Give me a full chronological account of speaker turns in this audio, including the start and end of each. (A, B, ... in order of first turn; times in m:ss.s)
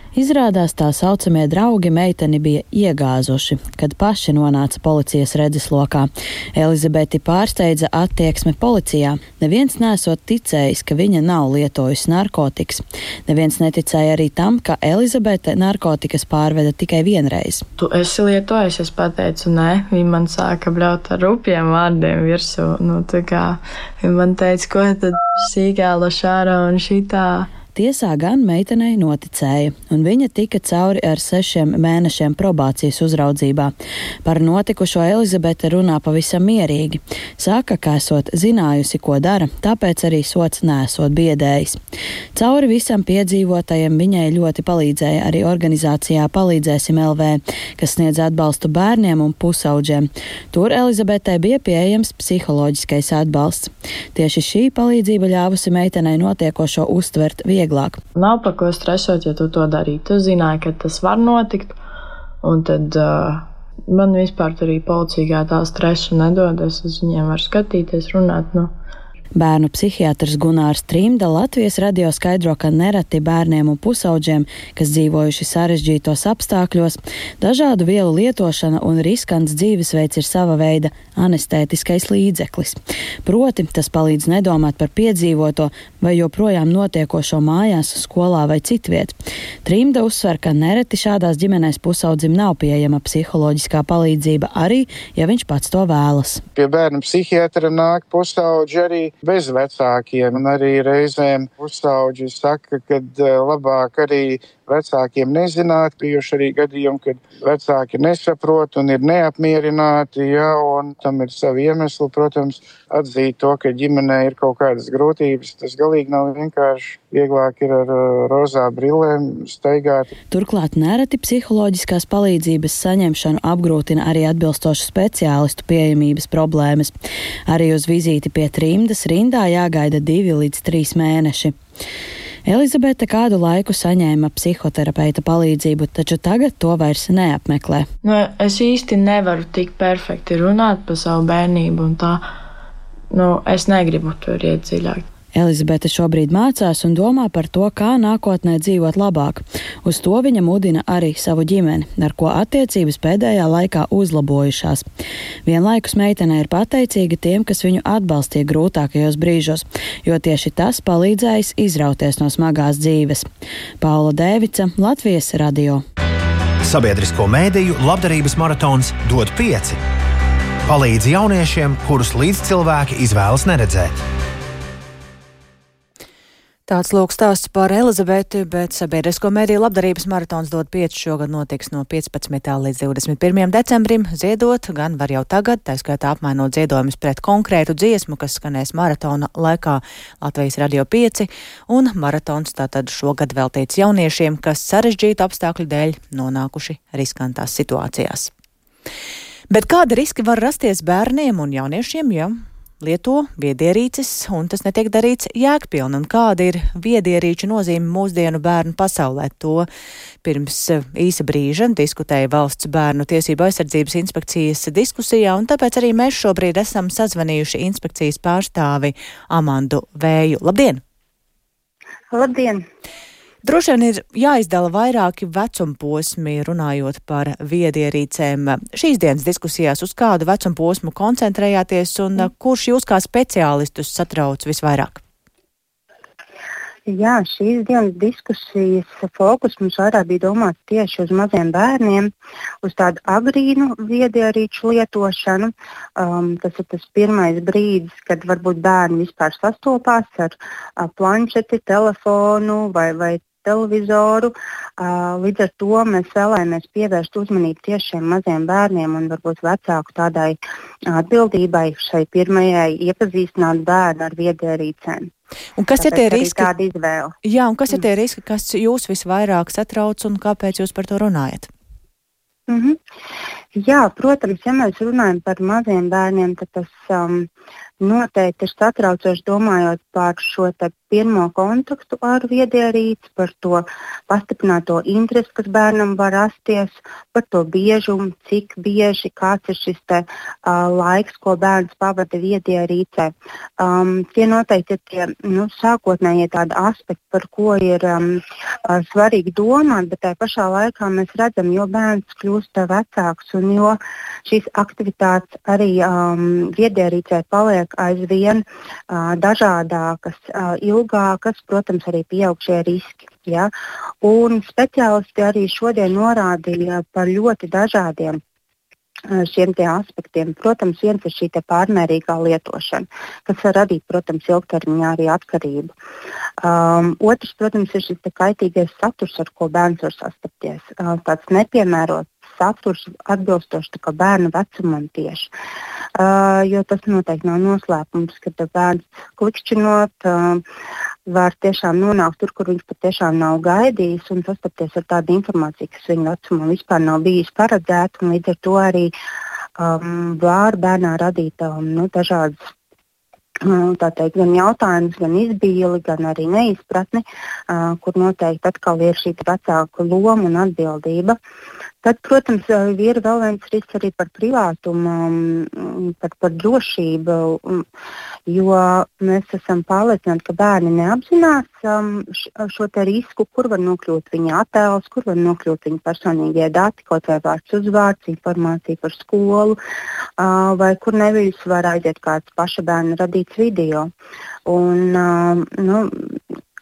0:00.1-0:17.6 A
0:17.8-0:27.5 B
0:27.8-0:33.7 A
0:34.2-0:41.8 A
0:42.4-0:58.0 A
0:58.2-1:01.8 B
1:02.4-1:08.7 B
1:09.4-1:29.1 A
1:29.6-1:36.4 A
1:36.6-2:00.1 C
2:00.3-2:06.9 A
2:07.5-2:11.5 A
2:12.5-2:17.9 A
2:18.0-2:22.2 B
2:23.1-2:25.0 B
2:25.4-2:34.8 A
2:35.5-2:43.2 A
2:43.8-2:45.8 A
2:46.6-2:49.8 D
2:50.6-2:53.9 D
2:56.7-3:18.3 E
3:19.5-3:29.7 E
3:30.2-3:40.8 E
3:42.1-3:42.6 F
3:43.4-3:55.0 E
3:56.9-4:02.1 F
4:02.6-4:20.4 F
4:20.9-4:25.1 F
4:25.6-4:26.5 E
4:25.8-4:27.1 F
4:27.2-4:31.5 E
4:32.5-4:32.8 F
4:33.6-4:37.3 F
4:37.8-5:13.5 F
5:14.0-5:18.2 F
5:19.1-5:25.7 F
5:26.4-5:35.3 F
5:36.0-5:40.4 F
5:41.1-5:48.9 F
5:49.6-5:52.4 F
5:53.5-6:01.2 F
6:01.8-6:07.6 F
6:08.3-6:19.6 F
6:20.2-6:23.9 F
6:24.5-6:26.1 F